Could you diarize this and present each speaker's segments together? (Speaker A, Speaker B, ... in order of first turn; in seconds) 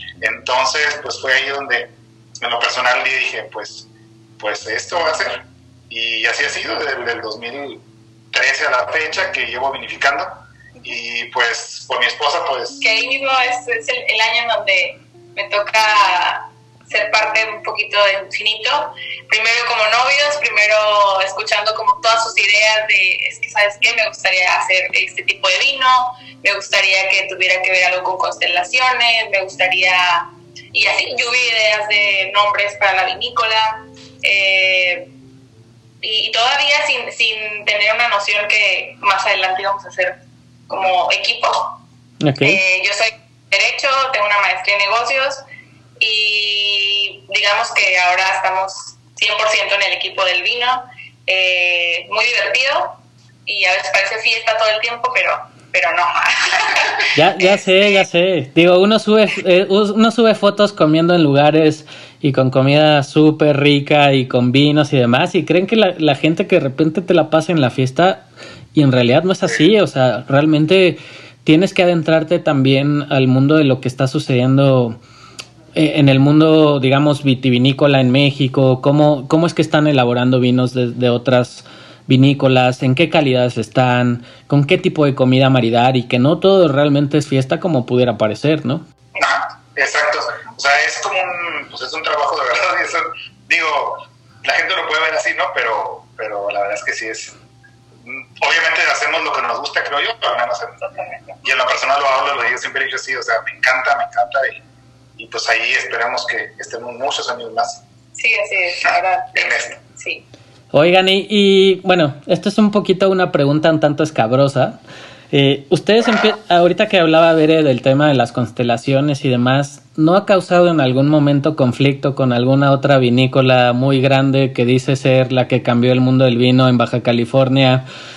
Speaker A: 0.2-3.9, 4.4-12.8, 89.2-97.3, 98.0-100.8, 101.4-104.6, 105.2-107.8, 108.8-109.8
Speaker B: 12.8-35.1, 36.0-40.2, 40.7-41.8, 42.4-45.4, 46.0-58.0, 100.8-101.4, 108.2-110.2
Speaker C: 42.2-42.6, 57.1-75.0, 75.8-88.8, 110.7-127.8